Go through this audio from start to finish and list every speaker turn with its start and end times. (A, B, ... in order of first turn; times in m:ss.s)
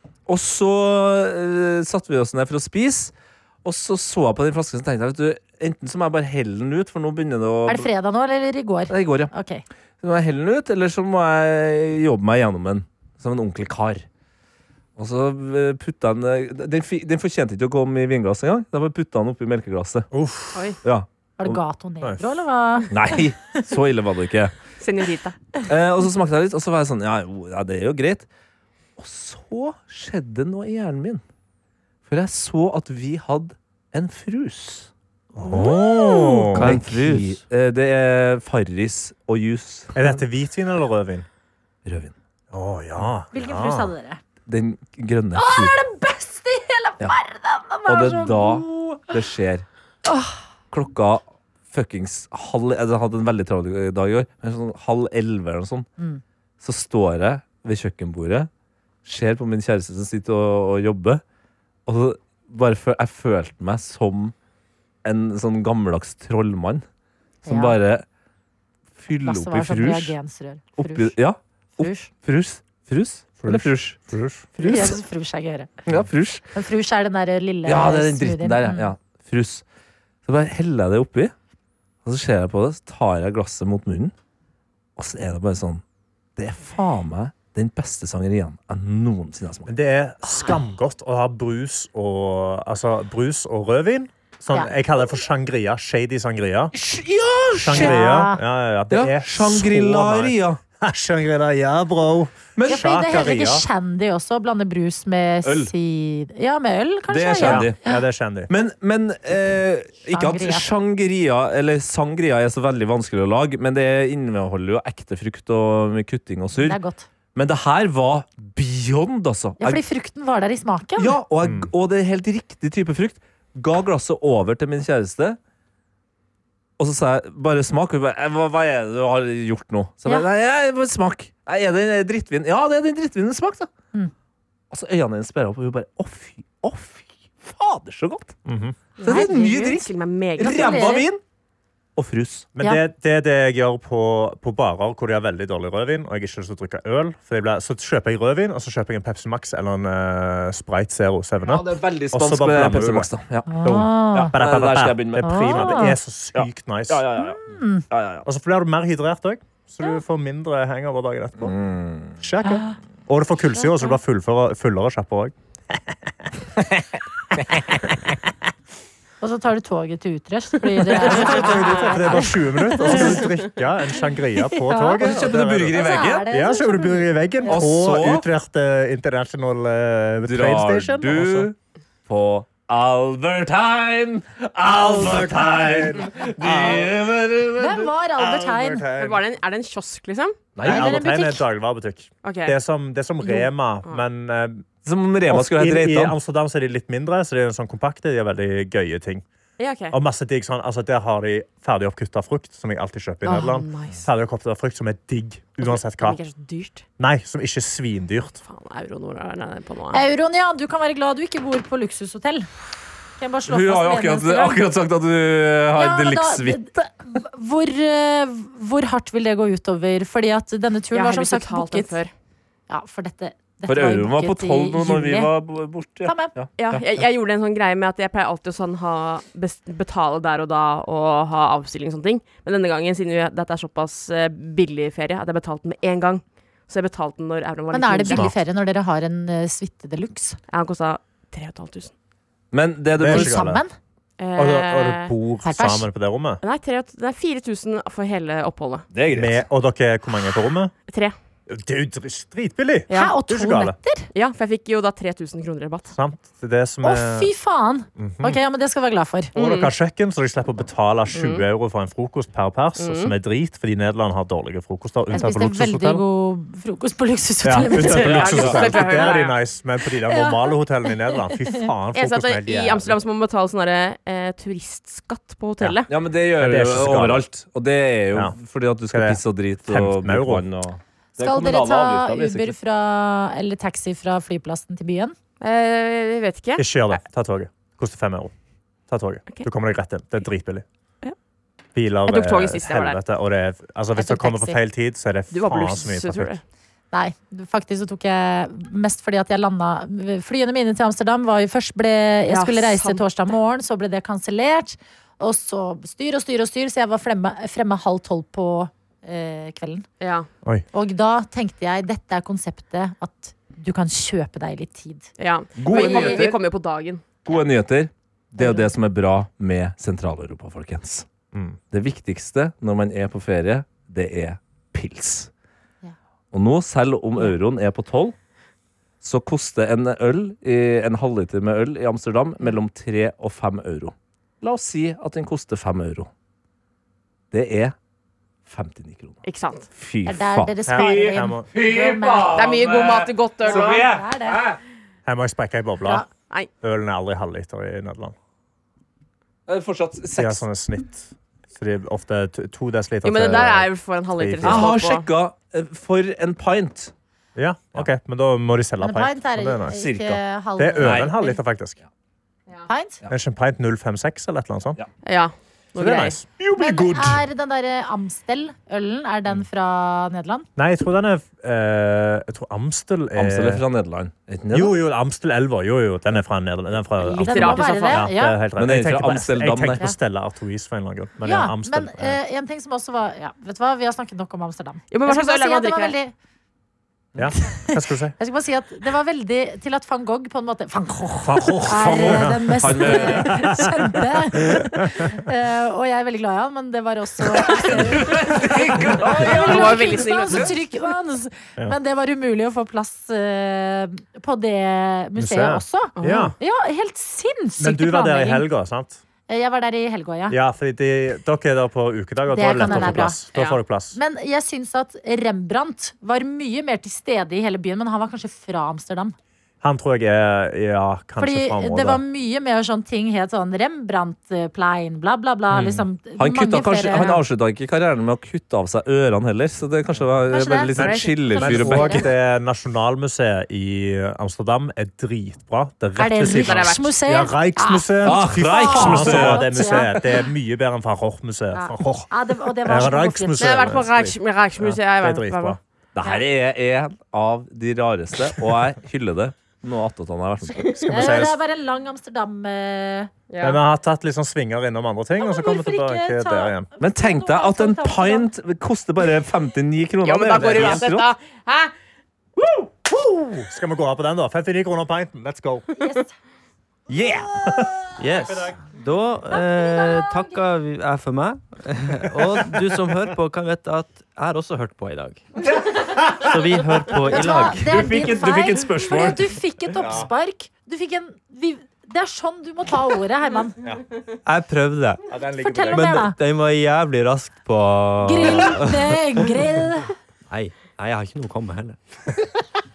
0:00.3-0:03.1 A
0:03.6-0:07.9 A
0:07.7-0:09.6 B
0:08.9-0:09.3 A
0:10.0-0:14.1 A
0:15.0-0:20.1 A
0:20.1-0:20.7 C
0:20.8-0:21.6 A
0:21.4-0:22.9 B
0:22.0-0:22.3 C
0:22.9-0:24.5 A
0:24.8-0:25.4 D
0:25.7-0:28.3 A
0:29.0-0:31.2 A
0:32.1-0:34.9 A
0:35.4-0:36.8 C
0:35.5-0:36.6 B
0:36.5-0:37.4 E
0:36.6-0:40.2 A
0:39.9-0:41.3 C
0:41.8-0:42.1 A
0:42.5-0:43.9 C
0:43.3-0:44.2 B
0:44.5-0:45.8 A
0:45.4-0:49.1 B
0:47.9-0:49.7 A
0:50.0-0:50.4 B
0:50.7-0:55.9 A
0:56.6-0:58.5 A
0:59.0-1:01.2 A
1:01.9-1:04.3 A
1:05.0-1:06.8 A
1:07.5-1:07.8 B
1:07.5-1:08.0 A
1:09.0-1:10.2 A
1:09.2-1:11.2 B
1:10.8-1:14.0 A
1:11.8-1:12.1 B
1:13.4-1:14.5 C
1:14.6-1:15.0 A
1:14.6-1:15.7 B
1:15.9-1:16.5 A
1:16.5-1:18.9 B
1:17.6-1:19.6 A
1:20.2-1:21.4 A
1:22.0-1:24.1 A
1:25.0-1:25.8 A
1:26.4-1:29.7 A
1:29.7-1:36.8 C
1:36.8-1:38.0 A
1:37.6-1:43.7 C
1:37.7-1:38.4 B
1:38.9-1:40.6 A
1:42.6-1:42.9 A
1:42.7-1:48.0 B
1:45.4-1:45.7 A
1:47.1-1:47.8 A
1:47.4-1:48.5 C
1:48.5-1:56.8 A
1:50.1-1:50.7 B
1:56.6-1:57.1 B
1:57.4-1:59.8 A
1:59.6-2:01.2 B
2:01.0-2:05.4 A
2:01.4-2:01.7 C
2:06.8-2:13.7 A
2:14.7-2:18.4 A
2:18.5-2:18.8 C
2:19.0-2:21.0 D
2:19.0-2:21.2 A
2:19.1-2:19.7 B
2:20.4-2:21.1 B
2:22.0-2:22.5 A
2:22.6-2:33.1 C
2:31.4-2:38.3 A
2:33.5-2:34.4 B
2:33.6-2:37.1 C
2:35.2-2:36.0 B
2:37.2-2:37.9 B
2:38.2-2:41.6 C
2:41.4-2:42.2 A
2:42.2-2:45.3 C
2:42.4-2:42.8 B
2:49.2-2:53.2 B
2:51.0-3:01.5 C
2:51.0-2:51.9 D
2:54.5-2:57.6 B
2:55.0-2:56.3 A
2:57.5-2:58.3 A
3:00.3-3:01.6 A
3:02.1-3:07.9 A
3:04.7-3:06.9 C
3:07.6-3:08.8 B
3:08.2-3:09.2 C
3:09.0-3:10.4 D
3:10.6-3:11.0 A
3:10.6-3:14.7 C
3:10.6-3:11.4 B
3:12.2-3:12.6 D
3:13.3-3:14.0 D
3:14.8-3:16.2 A
3:15.3-3:19.2 C
3:19.6-3:20.0 D
3:19.9-3:26.2 C
3:23.3-3:24.0 D
3:25.6-3:26.9 D
3:27.0-3:28.4 C
3:28.5-3:30.0 D
3:29.9-3:32.5 B
3:33.2-3:34.6 B
3:33.5-3:36.8 A
3:35.7-3:42.0 B
3:40.9-3:42.1 D
3:42.7-3:45.4 B
3:43.7-3:46.8 A
3:46.0-3:46.3 B
3:46.6-3:58.3 D
3:57.7-4:00.4 B
3:58.1-3:58.4 C
4:00.5-4:01.9 D
4:02.5-4:03.6 A
4:03.0-4:03.6 C
4:03.1-4:03.7 B
4:04.2-4:05.1 D
4:04.4-4:06.4 C
4:05.4-4:05.9 B
4:06.4-4:08.9 D
4:08.9-4:09.5 A
4:09.1-4:10.7 C
4:10.9-4:11.2 D
4:11.5-4:13.8 C
4:12.9-4:14.1 B
4:14.1-4:16.0 D
4:15.9-4:17.3 C
4:16.8-4:19.3 B
4:18.0-4:18.4 C
4:19.4-4:19.7 D
4:19.4-4:26.0 C
4:21.1-4:21.5 D
4:22.8-4:23.2 D
4:25.1-4:29.1 B
4:27.4-4:33.0 C
4:27.8-4:29.4 D
4:28.0-4:28.8 A
4:30.1-4:31.7 B
4:31.9-4:35.9 D
4:35.9-4:42.6 A
4:36.3-4:37.2 C
4:38.9-4:40.4 C
4:41.2-4:45.2 B
4:45.4-4:46.6 D
4:46.6-4:48.3 C
4:48.9-4:50.6 C
4:51.8-4:56.4 C
4:52.1-4:53.0 D
4:54.0-4:54.6 B
4:55.3-4:56.4 D
4:56.9-5:09.9 B
5:02.3-5:03.0 D
5:10.0-5:10.3 D
5:10.7-5:15.1 B
5:15.2-5:17.0 D
5:15.6-5:16.4 A
5:15.7-5:16.3 B
5:17.2-5:21.1 A
5:18.4-5:18.6 B
5:21.3-5:21.6 C
5:21.7-5:25.3 A
5:26.3-5:28.2 A
5:29.0-5:36.1 A
5:37.3-5:37.8 A
5:38.5-5:39.2 A
5:39.2-5:39.7 D
5:39.7-5:44.6 A
5:40.1-5:42.6 B
5:40.7-5:41.5 C
5:42.4-5:43.9 D
5:43.4-5:44.4 B
5:45.1-5:46.1 C
5:46.6-5:48.2 C
5:49.5-5:50.4 A
5:50.2-5:54.7 C
5:53.0-5:55.1 D
5:54.4-5:56.9 A
5:57.4-5:59.8 C
5:58.8-6:01.4 B
5:59.7-6:00.2 A
6:00.6-6:01.8 C
6:00.8-6:01.1 A
6:02.7-6:03.0 B
6:03.1-6:04.8 C
6:05.0-6:06.2 D
6:05.8-6:06.3 C
6:06.4-6:07.2 A
6:06.6-6:10.5 B
6:10.6-6:13.6 C
6:13.2-6:14.8 A
6:14.5-6:22.2 C
6:17.0-6:18.0 D
6:17.2-6:18.4 B
6:18.6-6:19.8 A
6:21.2-6:26.1 B
6:24.9-6:26.0 D
6:27.2-6:28.2 C
6:27.5-6:48.5 B
6:31.2-6:34.0 C
6:31.6-6:33.7 A
6:34.5-6:35.1 C
6:37.4-6:40.5 A
6:39.0-6:40.6 D
6:45.2-6:46.4 C
6:46.0-6:46.3 D
6:47.6-6:49.0 C
6:49.3-6:50.4 B
6:50.3-6:54.0 C
6:52.3-6:53.2 B
6:53.3-6:53.6 D
6:54.0-6:59.2 B
6:59.6-7:02.0 C
7:01.2-7:07.2 B
7:05.6-7:05.8 C
7:06.2-7:12.1 A
7:10.3-7:12.1 B
7:10.8-7:25.6 C
7:16.0-7:20.0 B
7:16.3-7:16.9 D
7:18.0-7:20.0 A
7:21.5-7:23.8 B
7:23.4-7:25.6 D
7:26.0-7:31.3 A
7:30.6-7:31.4 C
7:30.9-7:33.1 B
7:33.3-7:33.6 D
7:33.4-7:36.7 C
7:35.2-7:38.3 B
7:36.8-7:41.1 A
7:40.0-7:41.7 D
7:42.9-7:45.7 C
7:45.8-7:46.1 B
7:46.9-7:47.7 A
7:47.5-7:47.7 C
7:48.0-7:55.3 E
7:48.3-7:48.6 C
7:49.3-7:50.3 B
7:56.1-7:58.0 E
7:57.0-7:59.3 A
7:57.1-8:03.6 B
7:59.8-8:00.1 C
8:04.2-8:05.1 E
8:05.1-8:06.1 C
8:05.4-8:06.2 B
8:05.7-8:09.4 E
8:08.0-8:09.9 B
8:10.3-8:11.8 E